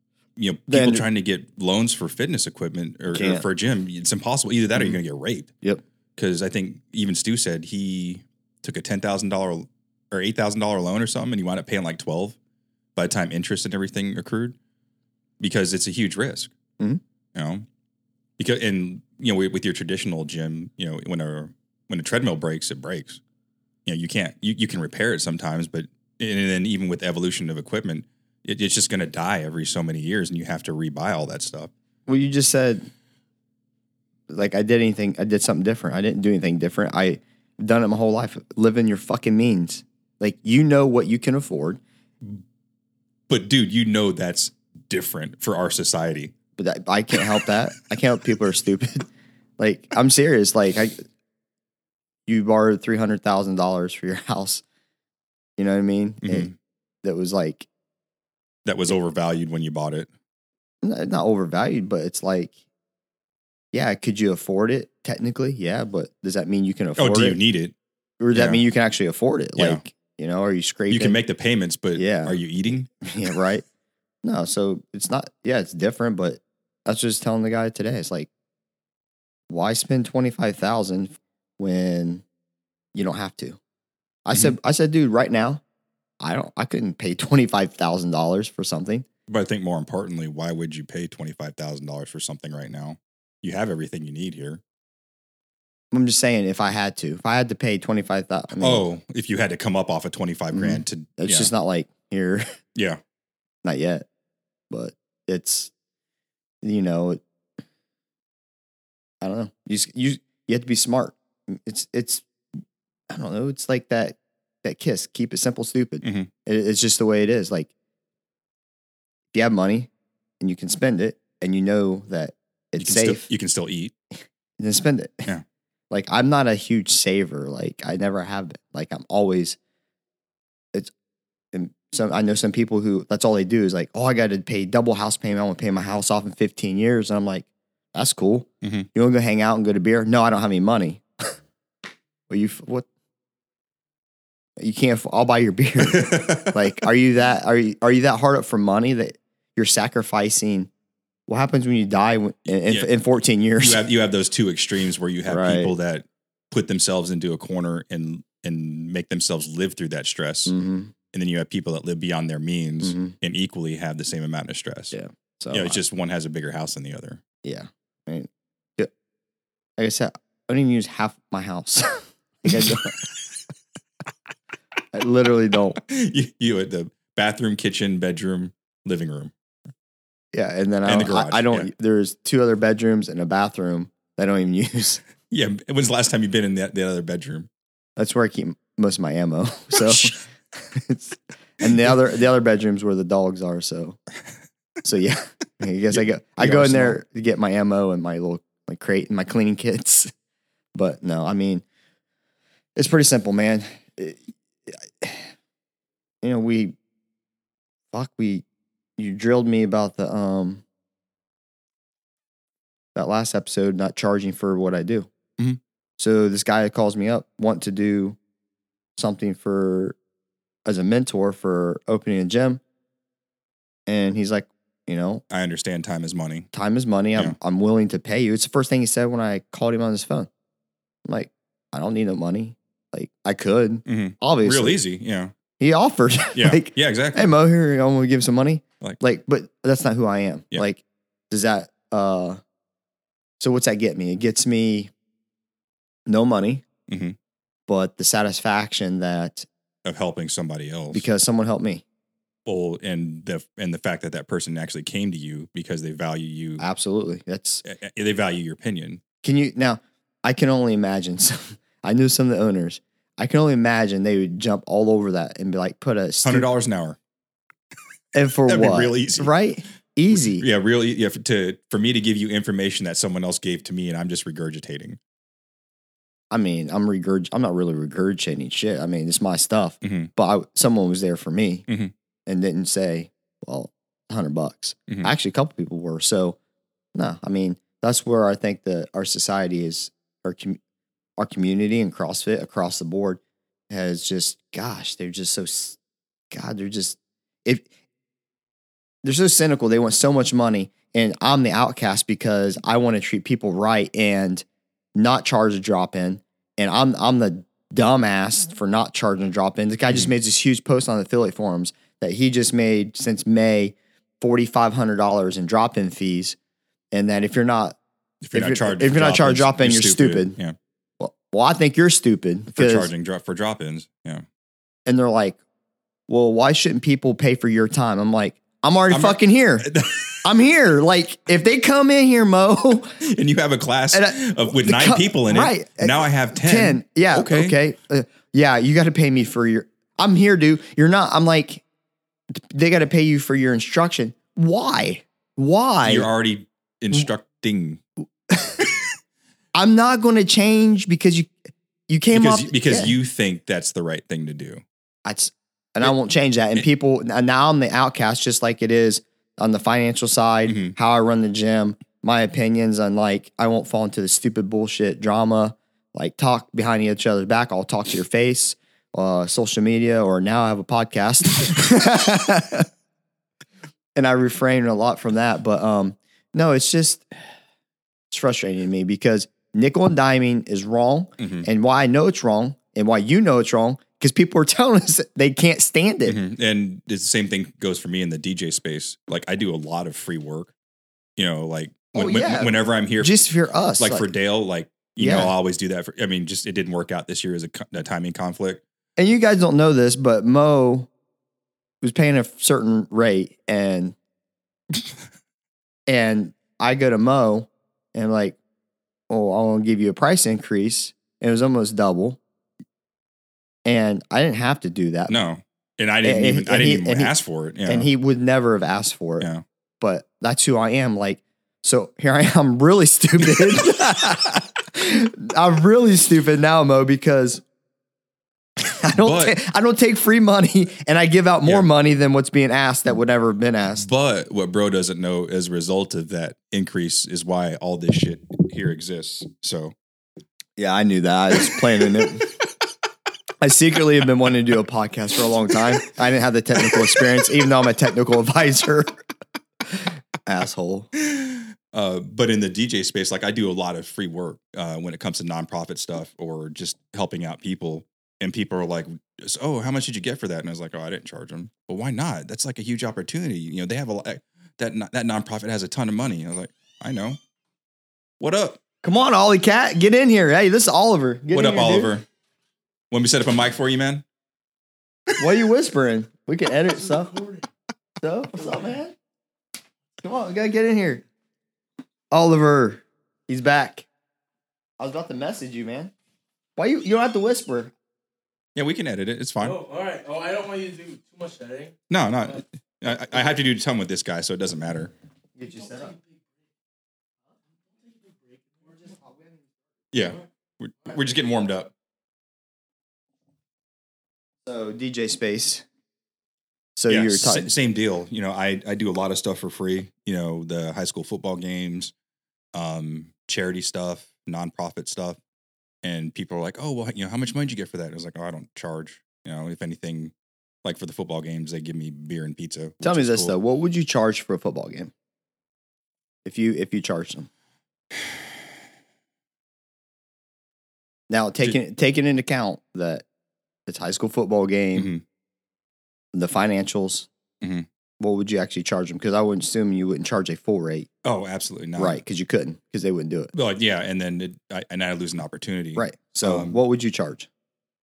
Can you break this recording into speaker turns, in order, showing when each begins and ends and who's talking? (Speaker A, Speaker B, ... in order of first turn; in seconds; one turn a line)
Speaker A: 0.3-5.5
Speaker B: 0.7-1.0
Speaker B: 3.1-3.4
Speaker A: 6.2-12.4
Speaker A: 12.9-14.6
Speaker A: 15.4-16.5
Speaker A: 17.3-17.7
Speaker A: 18.4-23.2
Speaker A: 23.9-31.7
Speaker B: 32.1-32.9
Speaker B: 34.3-41.8
Speaker A: 43.3-46.3
Speaker B: 46.6-49.0
Speaker B: 49.6-51.0
Speaker B: 52.3-54.6
Speaker B: 55.6-56.5
Speaker A: 56.2-56.5
Speaker B: 57.0-57.7
Speaker A: 58.6-60.1
Speaker B: 60.8-62.5
Speaker B: 63.7-67.4
Speaker A: 67.0-67.7
Speaker B: 68.2-71.2
Speaker A: 68.3-68.6
Speaker A: 69.6-69.8
Speaker A: 70.9-72.9
Speaker B: 71.9-72.4
Speaker B: 73.0-73.6
Speaker B: 74.2-78.3
Speaker B: 79.5-82.2
Speaker B: 82.9-83.6
Speaker B: 84.2-85.6
Speaker B: 86.2-89.0
Speaker A: 89.3-94.6
Speaker B: 95.9-98.8
Speaker A: 98.6-101.5
Speaker B: 100.5-102.5
Speaker A: 102.7-103.0
Speaker B: 103.6-104.1
Speaker B: 104.7-105.7
Speaker B: 106.6-107.2
Speaker B: 109.2-112.2
Speaker B: 113.1-117.7
Speaker A: 116.0-116.3
Speaker B: 119.3-119.9
Speaker B: 120.4-123.3
Speaker A: 122.8-123.9
Speaker B: 124.6-125.3
Speaker B: 125.9-129.6
Speaker B: 131.5-141.3
Speaker B: 142.3-142.9
Speaker B: 144.6-150.7
Speaker A: 145.8-146.6
Speaker B: 151.3-153.8
Speaker A: 153.6-160.5
Speaker B: 155.3-155.7
Speaker B: 160.5-160.9
Speaker A: 161.1-164.9
Speaker B: 162.8-163.1
Speaker B: 164.9-165.8
Speaker A: 165.5-167.2
Speaker B: 167.4-168.9
Speaker B: 169.8-173.0
Speaker B: 174.9-175.8
Speaker A: 175.8-179.3
Speaker B: 180.3-185.0
Speaker A: 180.8-181.7
Speaker A: 185.3-187.5
Speaker B: 188.0-194.0
Speaker A: 189.7-190.1
Speaker B: 194.8-200.1
Speaker A: 195.9-197.0
Speaker B: 200.7-201.6
Speaker B: 202.8-205.3
Speaker B: 206.2-206.8
Speaker B: 207.9-208.4
Speaker B: 209.0-210.6
Speaker B: 212.9-215.1
Speaker B: 216.0-218.2
Speaker B: 218.9-220.0
Speaker B: 220.7-222.6
Speaker B: 223.9-225.2
Speaker A: 225.3-226.5
Speaker B: 226.5-230.3
Speaker B: 231.1-234.8
Speaker A: 233.8-235.3
Speaker B: 235.6-242.4
Speaker A: 236.3-237.2
Speaker B: 243.4-244.9
Speaker B: 246.1-246.6
Speaker A: 246.9-247.2
Speaker B: 247.7-249.5
Speaker A: 249.8-251.1
Speaker B: 250.9-251.8
Speaker A: 252.4-256.6
Speaker B: 256.6-257.6
Speaker A: 257.6-259.0
Speaker B: 259.2-266.5
Speaker A: 266.2-267.0
Speaker B: 268.1-270.4
Speaker A: 268.5-269.3
Speaker A: 270.1-275.0
Speaker B: 276.3-281.6
Speaker A: 279.8-280.1
Speaker B: 282.3-286.4
Speaker B: 286.9-290.6
Speaker B: 291.2-295.8
Speaker B: 296.3-297.7
Speaker B: 299.0-316.4
Speaker B: 316.9-317.8
Speaker A: 318.2-320.5
Speaker B: 318.3-320.4
Speaker B: 321.0-322.9
Speaker A: 322.5-324.2
Speaker B: 324.9-325.4
Speaker B: 326.1-329.7
Speaker A: 328.9-330.2
Speaker B: 330.2-333.0
Speaker A: 333.0-337.6
Speaker B: 333.9-341.6
Speaker B: 342.3-346.1
Speaker A: 345.8-347.8
Speaker B: 349.5-352.9
Speaker A: 352.1-354.6
Speaker B: 355.1-372.7
Speaker A: 360.5-360.7
Speaker B: 373.9-377.1
Speaker B: 378.1-386.2
Speaker A: 381.2-381.4
Speaker A: 386.1-390.5
Speaker A: 391.2-393.1
Speaker B: 391.9-394.1
Speaker A: 393.8-398.6
Speaker B: 395.0-395.3
Speaker B: 399.0-400.9
Speaker B: 401.8-403.9
Speaker B: 405.9-408.4
Speaker B: 409.1-412.2
Speaker B: 413.6-415.1
Speaker A: 415.1-417.9
Speaker B: 416.0-417.1
Speaker B: 417.7-419.3
Speaker B: 419.8-427.4
Speaker A: 423.3-423.6
Speaker B: 428.6-433.9
Speaker A: 429.0-429.4
Speaker A: 433.8-439.7
Speaker B: 440.6-442.3
Speaker B: 443.4-449.0
Speaker B: 449.8-450.9
Speaker A: 451.0-467.2
Speaker A: 468.2-468.6
Speaker B: 468.8-471.9
Speaker A: 471.3-472.1
Speaker A: 472.9-474.0
Speaker B: 475.1-477.2
Speaker B: 478.0-478.9
Speaker B: 480.0-481.0
Speaker B: 482.1-483.9
Speaker B: 484.8-485.9
Speaker B: 486.6-487.7
Speaker A: 488.6-489.6
Speaker C: 489.4-491.8
Speaker A: 491.9-494.9
Speaker B: 495.4-495.9
Speaker C: 498.6-498.9
Speaker A: 499.9-501.7
Speaker B: 504.4-505.6
Speaker B: 506.8-507.5
Speaker A: 506.9-511.9
Speaker A: 512.5-515.2
Speaker A: 515.8-520.1
Speaker A: 520.6-523.4
Speaker B: 522.8-524.9
Speaker B: 526.2-527.3
Speaker B: 531.1-533.0
Speaker B: 533.6-534.9
Speaker A: 534.8-535.0
Speaker B: 536.1-537.1
Speaker A: 537.4-537.7
Speaker B: 538.0-540.9
Speaker A: 541.0-542.0
Speaker B: 541.8-543.3
Speaker A: 543.3-546.6
Speaker B: 545.8-547.3